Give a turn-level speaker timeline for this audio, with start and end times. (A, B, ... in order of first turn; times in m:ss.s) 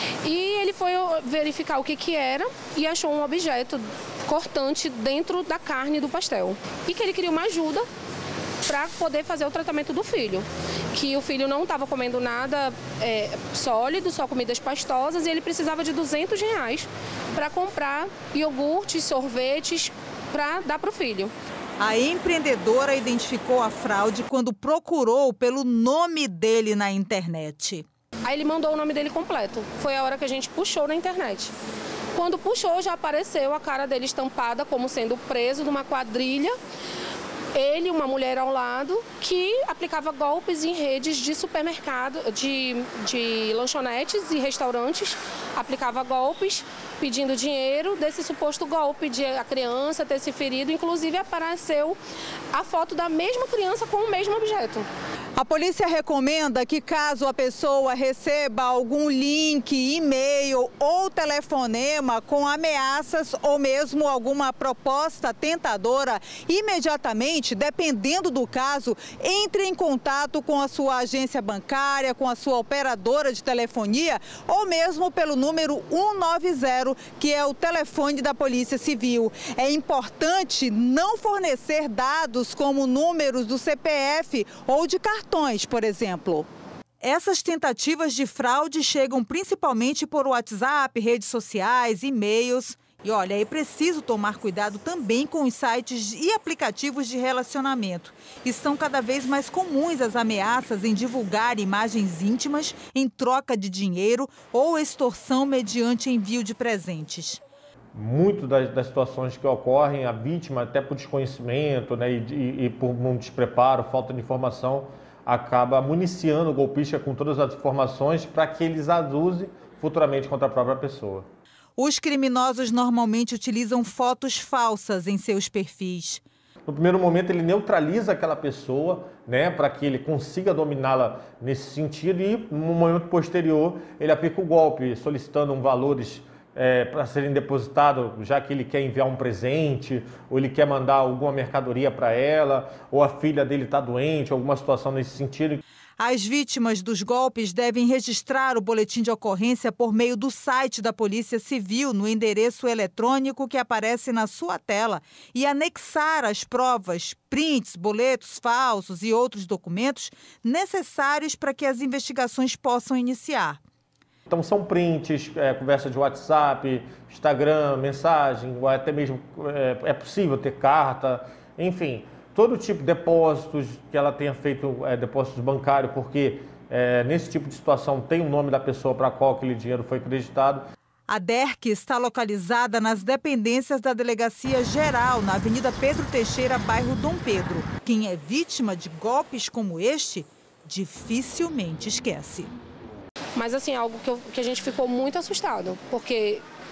0:00.2-0:07.9 A
0:08.6-0:21.3 A
0:21.8-0:27.8 B
0:28.2-0:31.5 A
0:32.1-0:36.6 A
0:37.5-0:52.0 A
0:52.5-0:54.9 A
0:55.4-1:26.5 B
1:27.0-1:47.4 B
1:47.9-2:01.2 C
2:01.8-2:06.2 B
2:06.6-2:25.6 C
2:26.0-2:43.6 B
2:44.3-3:00.6 C
3:01.1-3:12.5 B
3:13.3-3:16.4 A